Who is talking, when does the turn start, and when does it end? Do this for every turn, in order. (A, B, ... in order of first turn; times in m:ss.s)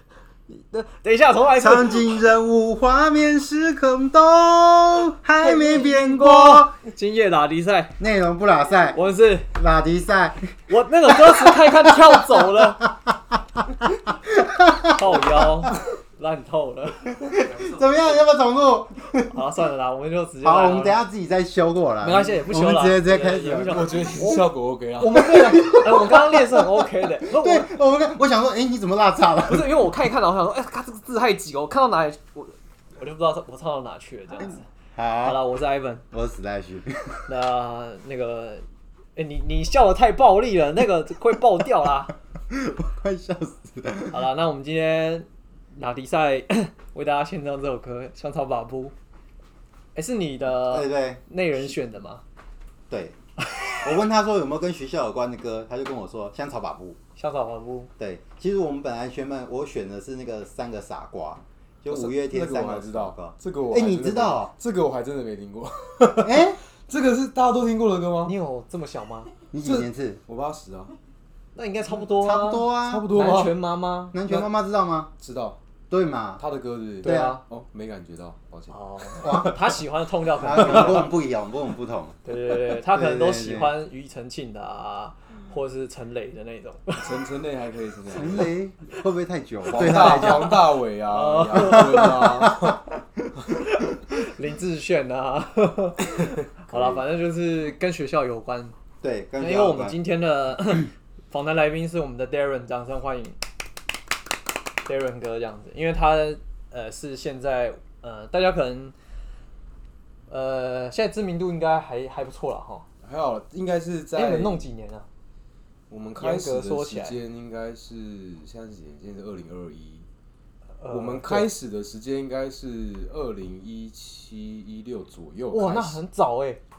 0:00.5-0:02.2 A
0:01.6-0:06.7 B
0:05.4-0:08.0 A
0:08.0-0:09.0 B
0:08.9-0:09.5 A
0:09.5-0:13.0 B
0:10.7-0:12.9 A
0:14.3-0:15.8 B
0:14.7-0:17.7 A
0:17.2-0:19.3 B
0:19.3-0:21.0 A
0:20.4-0:24.4 B
0:22.0-0:24.4 A
0:23.7-0:25.4 C
0:25.0-0:27.7 A
0:25.0-0:29.8 B
0:29.4-0:34.7 A
0:35.0-0:35.4 B
0:35.2-0:36.0 A
0:36.1-0:37.3 B
0:37.3-0:42.1 A
0:42.5-0:44.2 B
0:44.1-0:48.9 A
0:50.0-0:52.2 A
0:50.7-0:51.2 B
0:52.9-0:53.2 B
0:53.8-0:57.0 B
0:57.2-0:57.9 A
0:58.0-1:04.5 B
1:01.9-1:08.4 C
1:06.2-1:06.6 B
1:08.2-1:09.3 A
1:09.5-1:10.2 B
1:09.6-1:10.9 C
1:11.6-1:14.2 A
1:11.9-1:13.1 B
1:12.8-1:13.6 C
1:14.1-1:15.1 B
1:14.2-1:14.5 C
1:15.2-1:15.6 C
1:15.9-1:16.4 B
1:16.4-1:19.6 C
1:17.0-1:17.4 B
1:17.0-1:17.4 A
1:18.7-1:21.2 A
1:19.2-1:19.6 B
1:20.4-1:22.2 B
1:22.2-1:27.2 A
1:22.7-1:23.7 B
1:27.0-1:28.6 C
1:28.1-1:30.6 B
1:29.7-1:32.7 C
1:29.8-1:32.8 A
1:31.6-1:32.7 B
1:33.6-1:38.8 A
1:36.7-1:37.0 C
1:39.0-1:40.0 B
1:39.4-1:43.4 A
1:44.8-1:49.0 A
1:50.3-1:52.9 A
1:53.0-1:54.6 C
1:54.2-1:55.1 A
1:55.9-2:00.1 C
1:56.2-1:57.2 A
2:00.8-2:01.5 A
2:00.9-2:06.0 C
2:05.5-2:06.6 A